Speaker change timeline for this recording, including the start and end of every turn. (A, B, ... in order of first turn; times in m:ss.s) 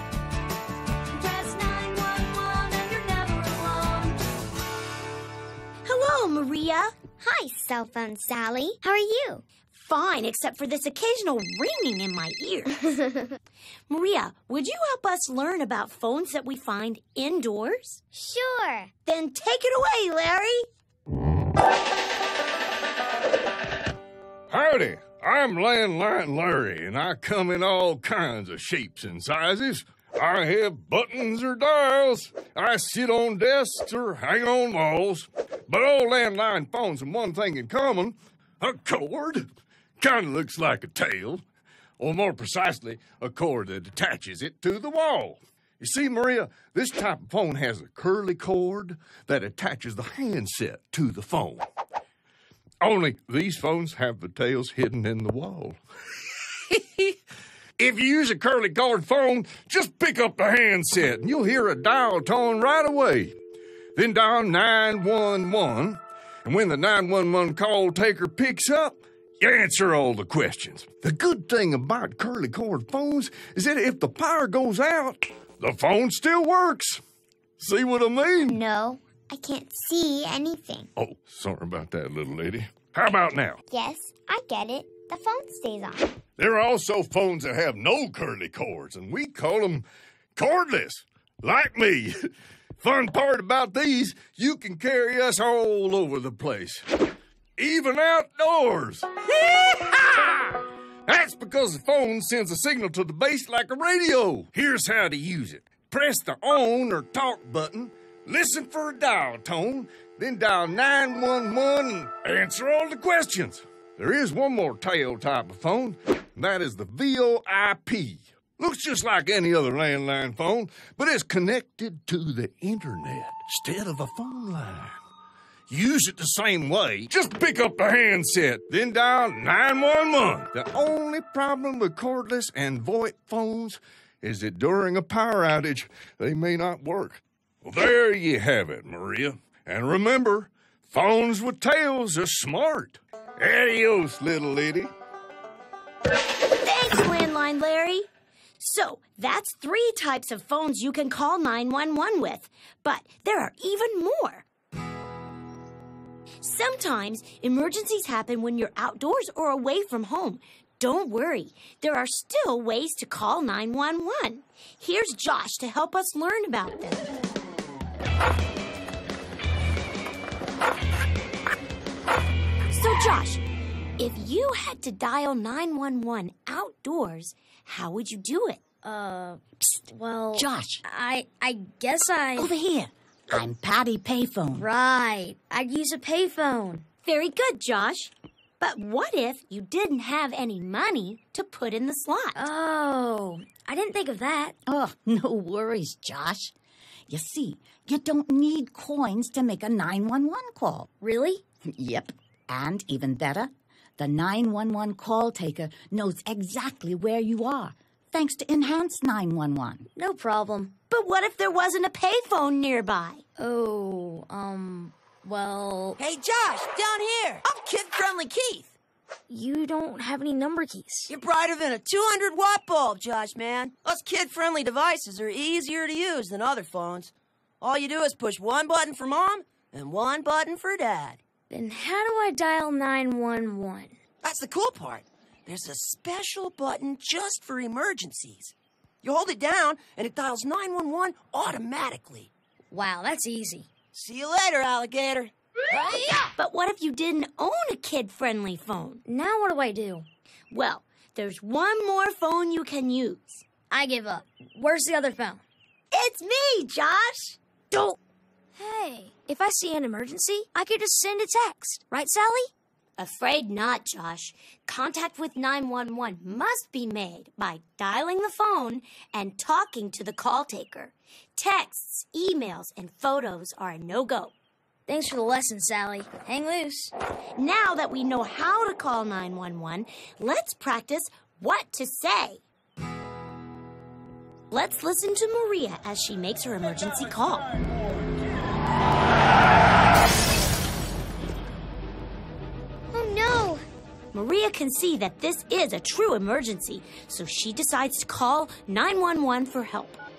0:01.2-0:04.1 A
0:05.9-0:07.0 A
0:07.2-0:09.4 B
0:09.7-0:13.0 A
0:13.9-0:18.0 A
0:18.1-0:18.9 B
0:19.1-0:20.7 A
0:24.5-0:39.5 C
0:40.0-0:41.4 C
0:42.0-0:51.7 C
0:52.8-0:55.8 C
0:56.7-0:57.2 C
0:57.8-1:03.4 C
1:04.0-1:17.0 C
1:17.6-1:18.6 C
1:18.5-1:20.9 B
1:21.0-1:23.6 C
1:23.7-1:26.2 B
1:26.4-1:29.8 C
1:30.4-1:32.1 C
1:32.8-1:36.8 C
1:37.6-2:05.0 C
2:05.7-2:24.9 C
2:26.6-2:28.1 A
2:28.6-2:34.5 A
2:36.4-2:47.0 A
2:52.7-2:53.4 A
2:54.0-2:58.6 A
2:58.8-3:02.5 D
3:00.3-3:00.8 E
3:02.4-3:04.7 E
3:04.6-3:06.8 D
3:07.0-3:12.5 A
3:12.4-3:14.6 D
3:14.7-3:16.5 E
3:17.1-3:20.9 E
3:21.0-3:21.4 D
3:21.6-3:29.9 E
3:30.0-3:30.8 D
3:30.9-3:33.2 A
3:33.4-3:36.0 D
3:36.0-3:38.7 F
3:39.3-3:41.1 D
3:41.1-3:51.2 F
3:51.5-3:53.9 D
3:54.2-4:02.3 F
4:02.7-4:03.7 D
4:03.9-4:06.3 F
4:06.4-4:09.0 A
4:09.0-4:10.1 D
4:10.5-4:13.5 A
4:13.7-4:15.4 D
4:15.9-4:17.4 A
4:17.7-4:18.0 D
4:18.6-4:22.5 D
4:23.0-4:34.3 A
4:34.9-4:36.9 D
4:37.4-4:42.4 A
4:44.5-4:47.4 A
4:52.9-4:53.6 B
4:54.1-5:00.0 A